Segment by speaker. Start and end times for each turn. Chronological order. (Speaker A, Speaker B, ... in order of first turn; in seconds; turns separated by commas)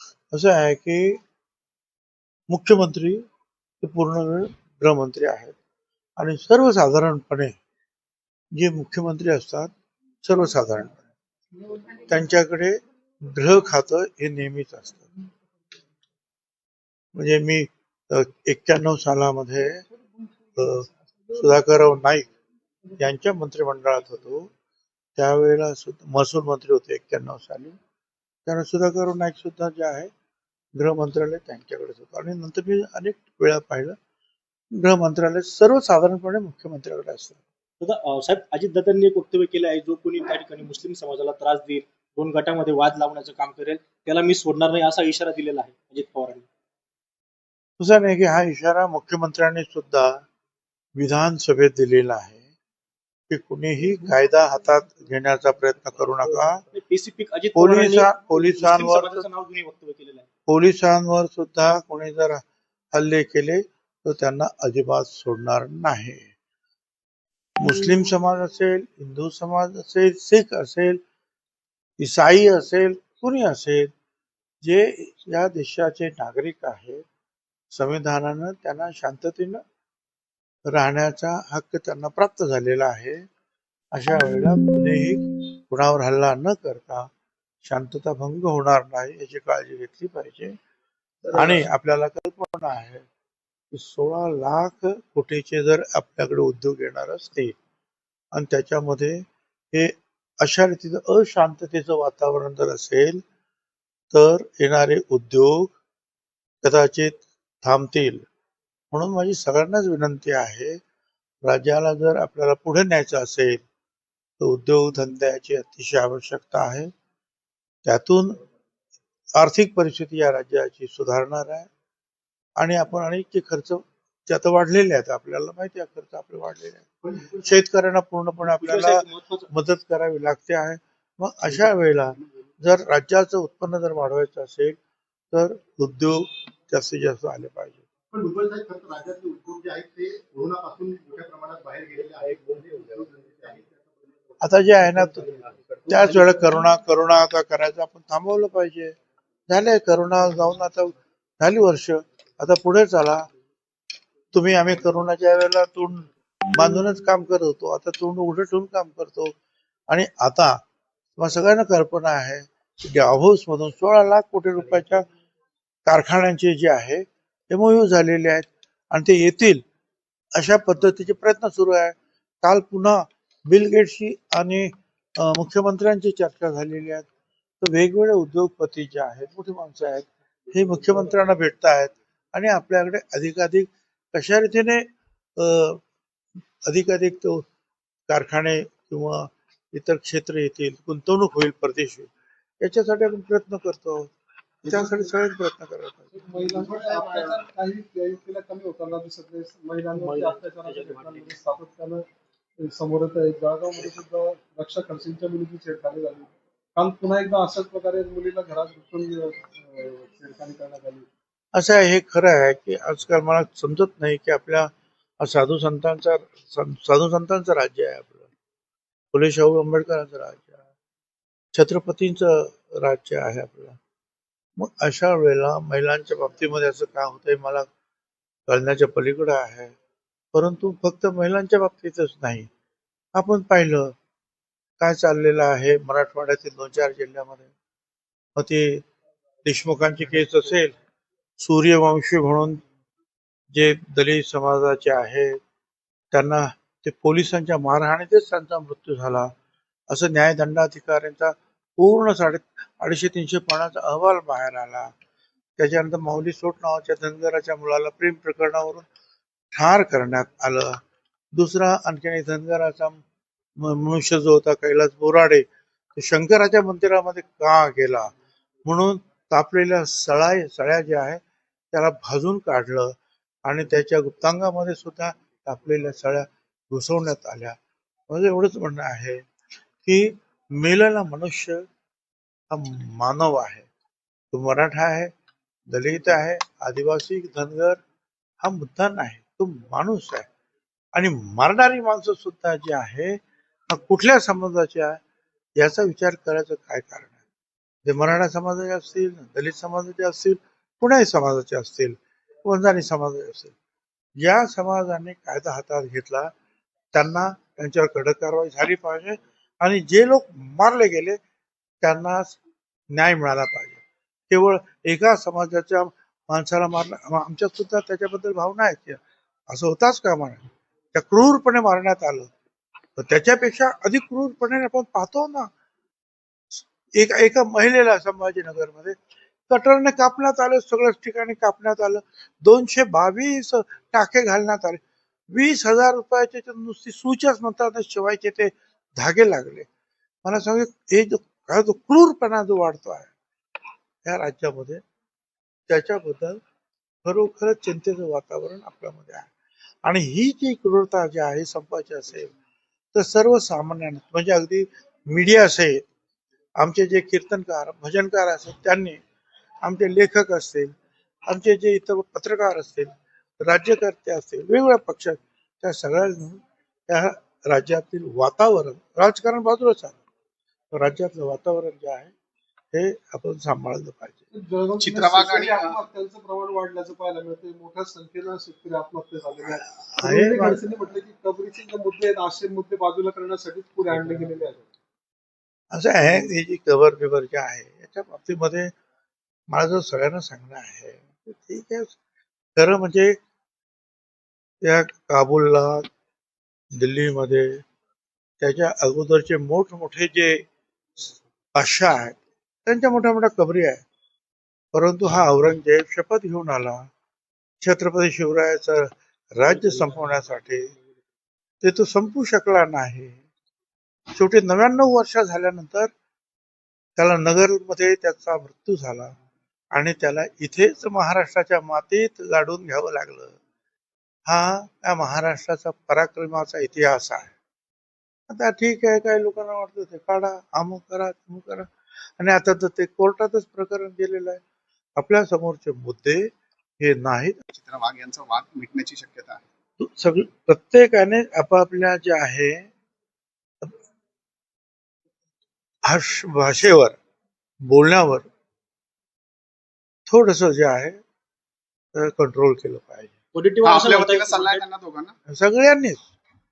Speaker A: 0.3-1.2, Speaker A: 2.5-3.2, Speaker A: 3.8-5.5, Speaker A: 6.2-7.6, Speaker A: 8.5-9.7, Speaker A: 10.2-11.0, Speaker A: 11.9-15.1, Speaker A: 17.1-19.8, Speaker A: 20.6-22.3, Speaker A: 23.0-24.5, Speaker A: 25.2-27.8, Speaker A: 28.5-30.1, Speaker A: 30.8-34.0, Speaker A: 34.8-37.4, Speaker B: 37.8-46.5, Speaker A: 47.8-50.2, Speaker A: 51.0-52.4, Speaker A: 53.3-56.6, Speaker B: 56.7-60.3, Speaker A: 57.5-59.3, Speaker A: 60.5-62.4, Speaker A: 62.9-66.3, Speaker A: 67.6-71.0, Speaker A: 72.0-73.9, Speaker A: 74.6-77.0, Speaker A: 77.7-79.6, Speaker A: 80.7-83.2, Speaker A: 83.9-87.1, Speaker A: 87.6-90.5, Speaker A: 91.3-93.1, Speaker A: 93.7-97.6, Speaker A: 98.3-103.2, Speaker A: 104.1-105.8, Speaker A: 106.6-108.2, Speaker A: 108.9-110.8, Speaker A: 111.4-113.6, Speaker A: 114.4-116.9, Speaker A: 117.8-118.4, Speaker A: 119.3-121.7, Speaker A: 122.6-134.8, Speaker B: 128.5-129.5, Speaker A: 135.3-137.8, Speaker C: 138.1-143.7, Speaker A: 144.4-145.3, Speaker C: 145.2-146.0, Speaker A: 145.9-148.9, Speaker A: 149.5-153.3, Speaker A: 154.3-159.3, Speaker A: 159.9-160.6, Speaker A: 161.2-165.1, Speaker A: 165.9-169.6, Speaker A: 170.3-177.1, Speaker A: 177.6-185.8, Speaker A: 186.7-187.4, Speaker A: 188.1-192.1, Speaker A: 192.6-194.1, Speaker A: 194.6-196.1, Speaker D: 196.1-202.1, Speaker C: 196.5-197.4, Speaker B: 199.9-201.3, Speaker D: 202.6-211.1, Speaker A: 211.5-218.3, Speaker A: 219.1-220.6, Speaker A: 221.5-223.8, Speaker A: 224.6-227.7, Speaker A: 228.5-229.7, Speaker A: 230.3-232.5, Speaker A: 233.2-233.9, Speaker A: 234.8-237.5, Speaker A: 238.4-238.8, Speaker A: 239.4-240.7, Speaker A: 241.4-242.6, Speaker A: 243.5-245.4, Speaker A: 246.1-249.3, Speaker A: 249.9-254.9, Speaker A: 255.6-258.9, Speaker A: 259.5-260.8, Speaker A: 261.3-263.0, Speaker A: 263.6-268.1, Speaker A: 268.6-271.2, Speaker A: 271.7-277.6, Speaker A: 278.1-279.2, Speaker A: 279.8-281.6, Speaker A: 282.5-283.7, Speaker A: 284.3-285.1, Speaker A: 285.7-287.8, Speaker A: 288.4-290.3, Speaker A: 290.9-295.0, Speaker A: 295.6-297.1, Speaker A: 297.9-303.5, Speaker A: 304.2-306.3, Speaker A: 306.9-311.2, Speaker A: 311.8-312.4, Speaker A: 312.9-322.3, Speaker A: 323.0-325.5, Speaker A: 326.6-329.0, Speaker A: 329.5-334.8, Speaker A: 335.3-339.7, Speaker A: 340.2-343.1, Speaker A: 344.1-344.8, Speaker A: 345.7-346.4, Speaker A: 347.0-349.3, Speaker A: 349.8-352.3, Speaker A: 352.9-355.9, Speaker A: 356.6-359.0, Speaker A: 359.6-360.7, Speaker A: 361.3-370.0, Speaker A: 370.7-372.1, Speaker A: 372.7-374.2, Speaker D: 374.3-384.7, Speaker C: 374.8-375.8, Speaker A: 379.5-380.6, Speaker A: 385.7-388.7, Speaker A: 389.5-392.0, Speaker A: 392.6-393.2, Speaker A: 394.6-395.9, Speaker A: 396.7-397.6, Speaker A: 398.4-400.4, Speaker A: 401.5-403.8, Speaker A: 404.7-406.9, Speaker A: 407.6-410.7, Speaker A: 411.6-413.2, Speaker A: 414.1-415.9, Speaker A: 417.0-419.1, Speaker A: 419.7-423.4, Speaker A: 424.3-427.3, Speaker A: 428.3-434.4, Speaker A: 435.0-437.4, Speaker C: 437.5-439.4, Speaker A: 439.8-442.7, Speaker A: 445.9-447.0, Speaker A: 447.6-448.3, Speaker A: 450.1-451.0, Speaker A: 451.9-453.1, Speaker B: 453.3-454.6, Speaker C: 453.6-455.1, Speaker A: 455.3-456.0